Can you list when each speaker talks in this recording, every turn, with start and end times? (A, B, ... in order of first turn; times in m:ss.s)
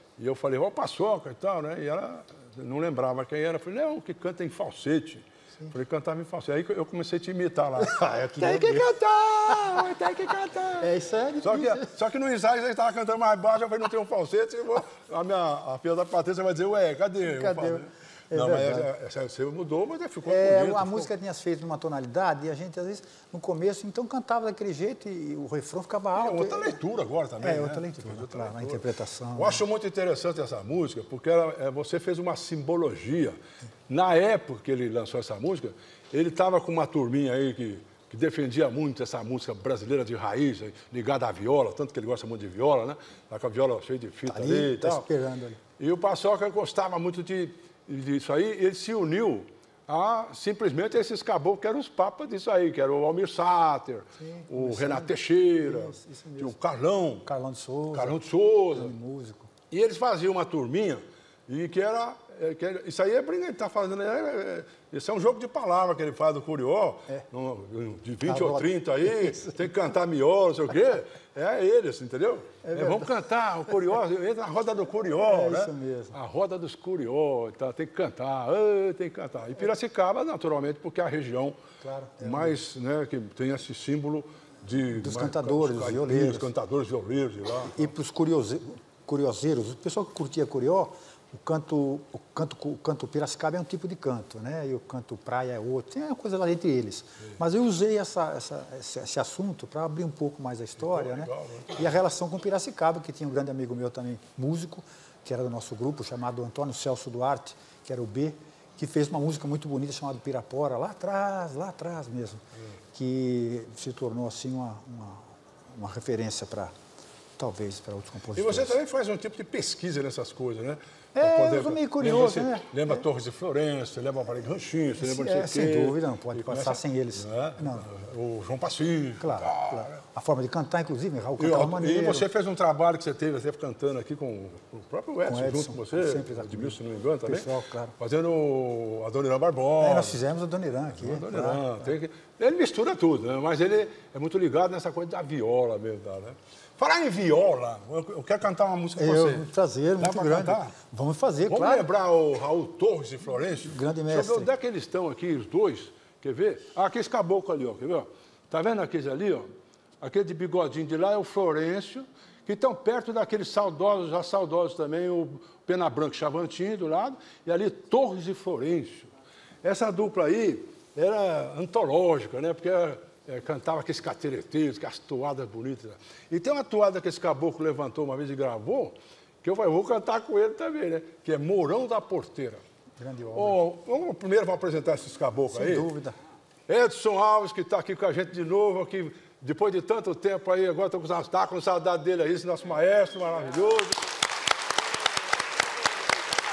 0:00.2-0:21.1 A
0:07.8-0:08.9 B
0:09.5-0:10.0 B
0:10.8-0:11.9 B
0:17.2-0:18.9 B
0:20.2-0:26.8 B
0:26.1-0:28.8 A
0:27.4-0:29.6 B
0:29.4-0:33.4 A
0:33.9-0:45.1 A
0:44.3-0:45.6 B
0:45.8-0:57.3 A
0:54.2-0:56.5 B
0:57.2-0:59.5 B
0:57.9-0:58.9 A
0:59.7-1:21.6 A
1:08.2-1:09.6 B
1:12.6-1:13.2 B
1:15.2-1:16.2 B
1:21.8-1:22.6 B
1:22.2-1:27.9 A
1:25.0-1:26.5 B
1:27.6-1:52.4 B
1:40.8-1:41.9 A
1:52.9-1:56.7 B
1:57.4-1:58.8 B
1:58.3-2:10.0 A
2:01.1-2:03.0 B
2:05.0-2:07.9 B
2:09.2-2:12.3 B
2:11.4-2:20.2 A
2:15.2-2:17.9 B
2:19.8-2:21.9 B
2:20.9-2:30.8 A
2:29.0-2:31.9 B
2:31.5-2:49.1 A
2:33.6-2:34.5 B
2:49.6-3:02.6 A
3:03.0-3:03.6 B
3:03.3-3:05.9 A
3:05.5-3:06.1 B
3:06.7-3:14.0 A